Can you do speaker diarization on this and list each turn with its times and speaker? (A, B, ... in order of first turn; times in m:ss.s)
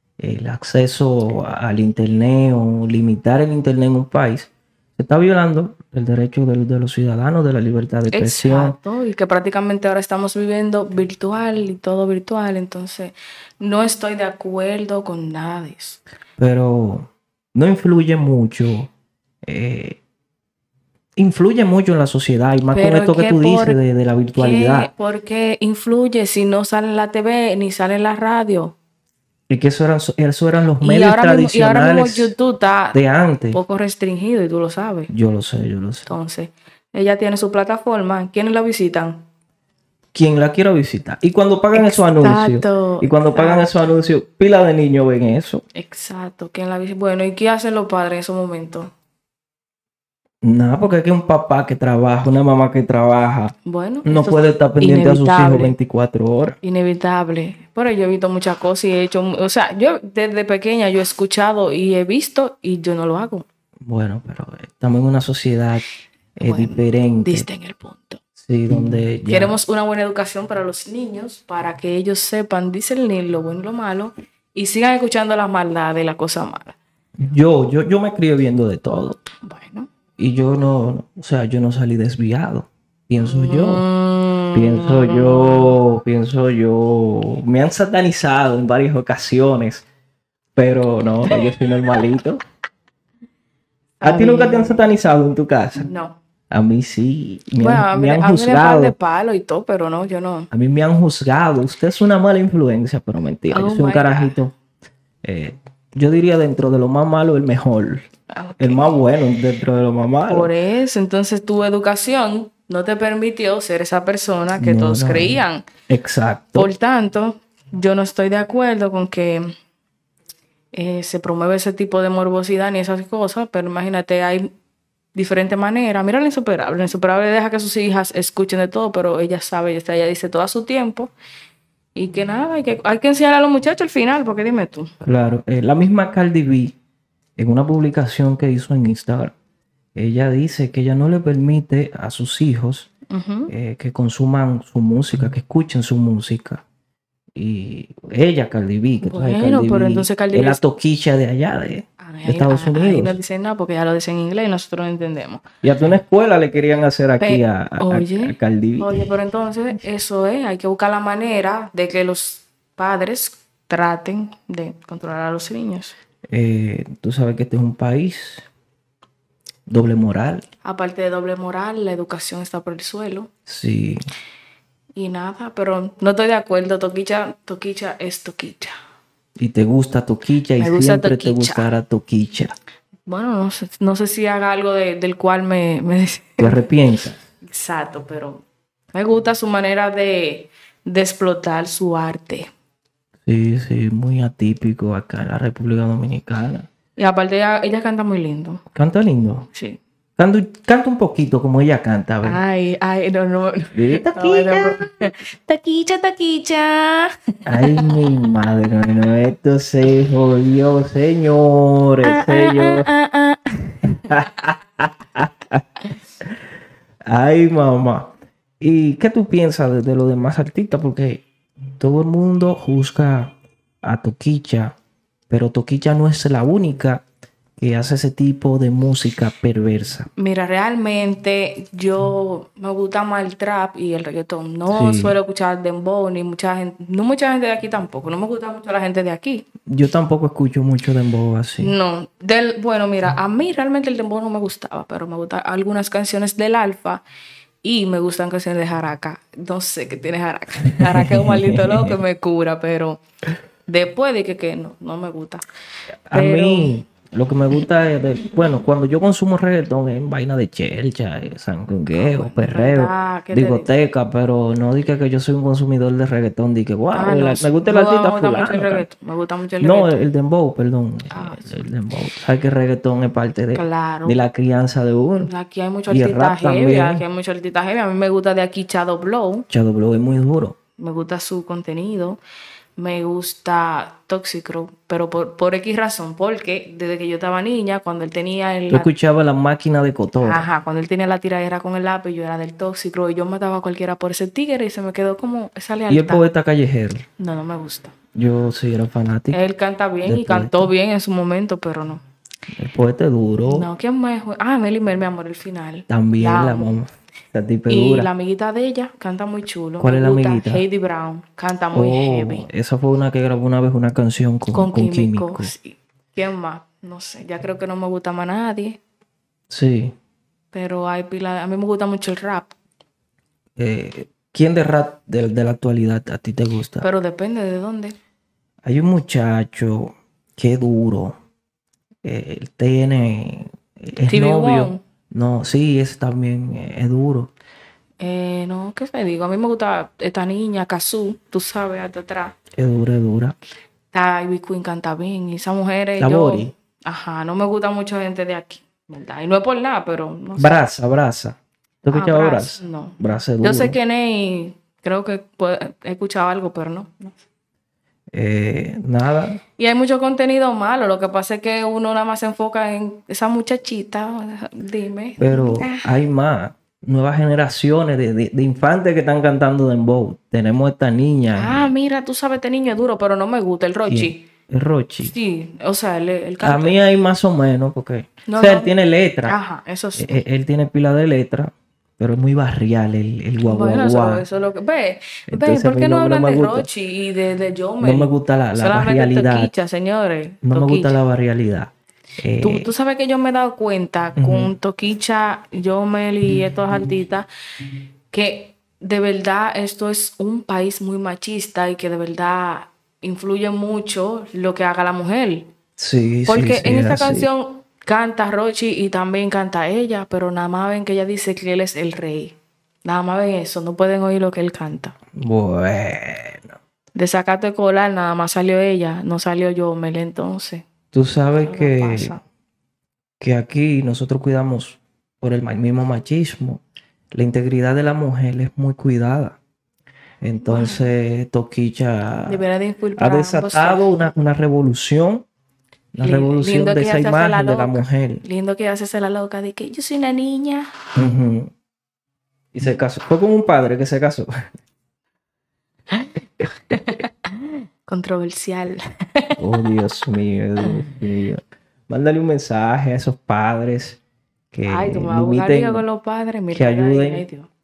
0:00.2-0:08.8 A
0:08.1-0:16.0 B
0:16.4-0:18.9 A
0:19.4-0:20.0 A
0:21.2-0:24.9 A
0:22.7-0:23.8 B
0:24.3-0:28.7 B
0:29.5-0:32.3 A
0:30.8-0:33.0 B
0:32.9-0:33.6 A
0:33.5-0:35.1 B
0:35.1-0:36.1 A
0:36.0-0:39.2 B
0:40.1-0:45.6 A
0:41.7-0:43.7 B
0:45.8-0:48.9 B
0:50.4-0:53.5 A
0:53.6-0:55.8 B
0:54.0-0:56.6 A
0:56.6-1:03.4 B
1:03.9-1:05.8 A
1:06.4-1:08.2 B
1:06.4-1:07.5 A
1:08.4-1:09.6 A
1:09.2-1:16.8 B
1:17.2-1:19.2 A
1:19.4-1:19.9 B
1:20.2-1:23.9 A
1:23.2-1:25.8 B
1:24.5-1:29.9 A
1:30.6-1:32.4 A
1:34.0-1:34.8 B
1:34.0-1:35.9 A
1:35.8-1:36.2 B
1:36.5-1:38.9 A
1:37.6-1:40.5 B
1:40.5-1:44.5 A
1:43.5-1:44.4 B
1:45.2-1:48.0 A
1:48.3-1:48.9 B
1:48.6-1:50.5 A
1:50.3-1:55.6 B
1:54.6-1:56.7 A
1:56.5-1:59.5 B
2:00.7-2:04.5 B
2:05.1-2:11.1 B
2:11.9-2:14.9 B
2:15.0-2:16.8 A
2:17.4-2:19.3 A
2:20.0-2:22.9 A
2:23.1-2:23.5 B
2:23.5-2:26.6 A
2:27.4-2:33.2 A
2:29.0-2:30.6 B
2:32.0-2:35.4 B
2:35.6-2:39.1 A
2:37.2-2:45.9 B
2:46.3-2:48.5 A
2:49.7-2:50.4 A
2:50.6-2:53.3 B
2:53.5-2:54.1 A
2:55.0-2:58.7 B
2:59.4-3:02.5 A
3:00.6-3:01.7 B
3:03.0-3:06.6 B
3:06.4-3:07.2 A
3:07.4-3:08.4 B
3:08.9-3:12.5 B
3:13.2-3:16.6 A
3:17.0-3:18.6 B
3:18.8-3:19.5 A
3:19.5-3:19.8 B
3:20.2-3:22.4 A
3:22.2-3:28.4 B
3:23.7-3:24.8 A
3:27.4-3:32.9 A
3:32.0-3:34.1 B
3:33.9-3:35.6 A
3:37.1-3:41.2 A
3:41.8-3:44.8 A
3:45.3-3:47.0 A
3:47.6-3:50.1 A
3:50.2-3:59.4 B
3:54.7-3:55.2 A
3:59.7-4:01.7 A
4:01.6-4:07.0 B
4:07.6-4:13.0 B
4:10.8-4:12.0 A
4:13.7-4:15.4 B
4:16.1-4:28.9 A
4:16.1-4:16.8 B
4:21.9-4:23.7 B
4:26.9-4:30.0 B
4:29.6-4:35.3 A
4:31.1-4:31.6 B
4:33.5-4:34.2 B
4:35.2-4:39.4 B
4:35.9-4:37.0 A
4:39.5-4:40.6 A
4:40.8-4:42.2 B
4:42.8-4:48.9 B
4:48.7-4:50.4 A
4:50.2-4:56.2 B
4:55.9-4:57.0 A
4:57.2-4:57.9 B
4:58.2-4:59.4 A
4:59.3-5:02.0 B
5:00.0-5:00.7 A
5:02.6-5:03.7 A
5:03.4-5:06.8 B
5:05.9-5:08.1 A
5:07.7-5:12.5 B
5:09.8-5:10.6 A
5:11.7-5:15.5 A
5:14.5-5:18.8 B
5:19.5-5:19.9 A
5:20.5-5:22.5 B
5:23.6-5:26.9 A
5:26.8-5:28.0 B
5:28.6-5:31.2 A
5:32.0-5:37.3 A
5:34.1-5:34.8 B
5:38.0-5:42.4 B
5:42.6-5:43.4 A
5:43.9-5:50.6 B
5:46.0-5:46.5 A
5:50.4-5:53.8 A
5:51.9-5:57.2 B
5:58.1-5:59.4 A
5:59.6-6:05.9 B
6:05.2-6:11.7 A
6:11.4-6:14.2 B
6:13.9-6:15.1 A
6:15.0-6:16.8 B
6:16.4-6:19.4 A
6:18.2-6:18.7 B
6:19.2-6:20.2 B
6:20.0-6:24.2 A
6:23.4-6:31.0 B
6:25.3-6:26.7 A
6:27.8-6:29.5 A
6:30.4-6:32.7 A
6:32.4-6:37.2 B
6:34.2-6:34.5 A
6:38.1-6:45.5 B
6:45.8-6:47.3 A
6:46.3-6:54.9 B
6:55.2-6:56.5 A
6:56.9-7:00.6 B
7:00.9-7:02.2 A
7:01.4-7:02.2 B
7:03.2-7:06.6 A
7:07.1-7:09.4 A
7:10.2-7:12.4 A
7:10.4-7:10.9 B
7:12.3-7:13.9 B
7:13.0-7:15.2 A
7:15.9-7:18.2 A
7:16.0-7:20.8 B
7:21.0-7:21.5 A
7:22.5-7:24.5 A
7:25.9-7:29.4 B
7:29.4-7:34.0 A
7:34.5-7:35.8 A
7:34.6-7:37.5 B
7:36.5-7:37.2 A